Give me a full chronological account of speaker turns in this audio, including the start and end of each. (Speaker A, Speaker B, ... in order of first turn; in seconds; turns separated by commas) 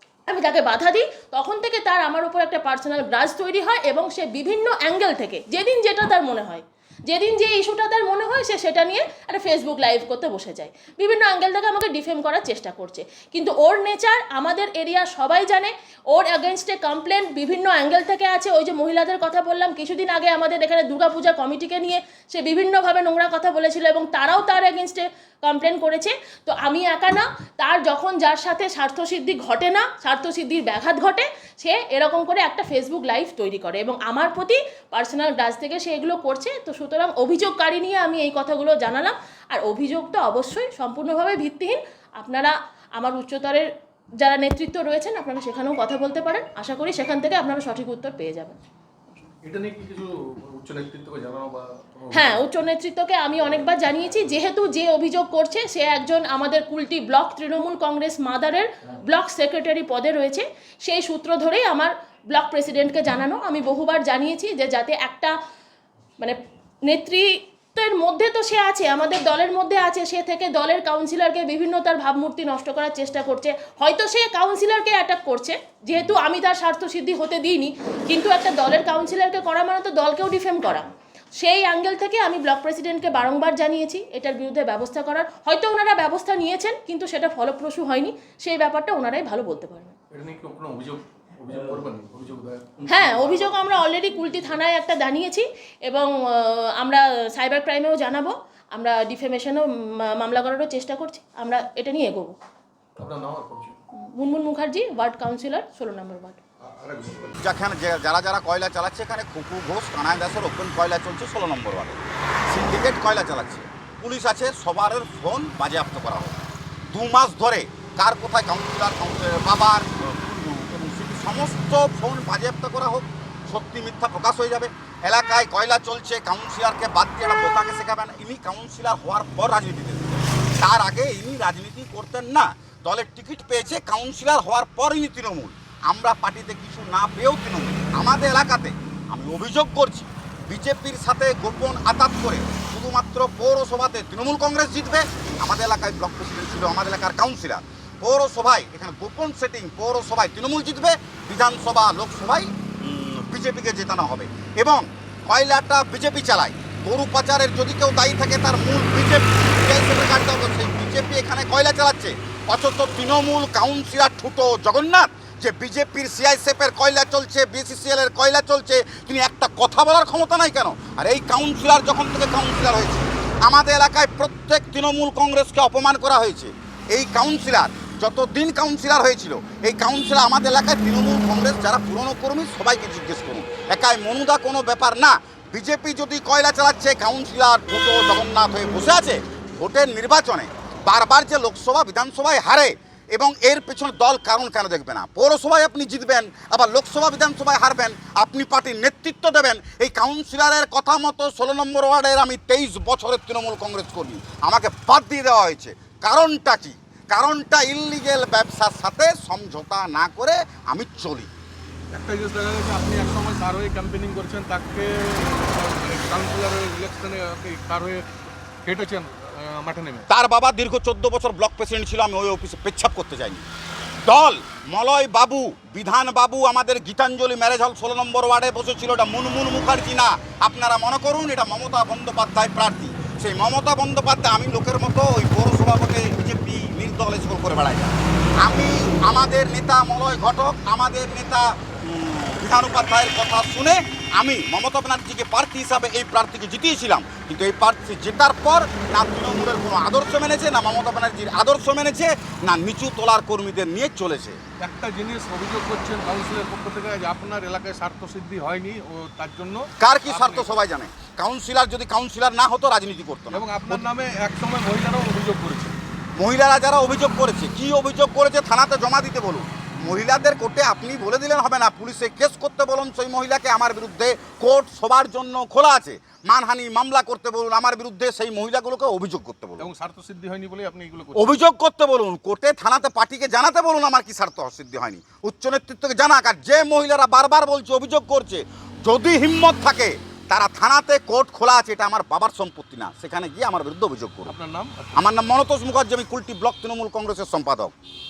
Speaker A: 0.3-48.6, Speaker B: 49.4-52.4, Speaker A: 52.1-65.3, Speaker A: 66.2-90.0, Speaker B: 90.1-93.6, Speaker A: 92.9-102.4, Speaker B: 103.0-103.8, Speaker A: 104.0-106.4, Speaker B: 106.6-107.4, Speaker C: 107.4-211.3, Speaker B: 211.9-218.1, Speaker B: 218.6-220.1, Speaker C: 220.1-223.4, Speaker C: 224.1-254.4, Speaker B: 254.6-260.6, Speaker C: 259.8-263.9, Speaker B: 263.3-265.8, Speaker C: 266.2-279.7, Speaker B: 279.6-281.4, Speaker C: 281.1-294.3, Speaker B: 294.3-295.1, Speaker C: 294.9-297.7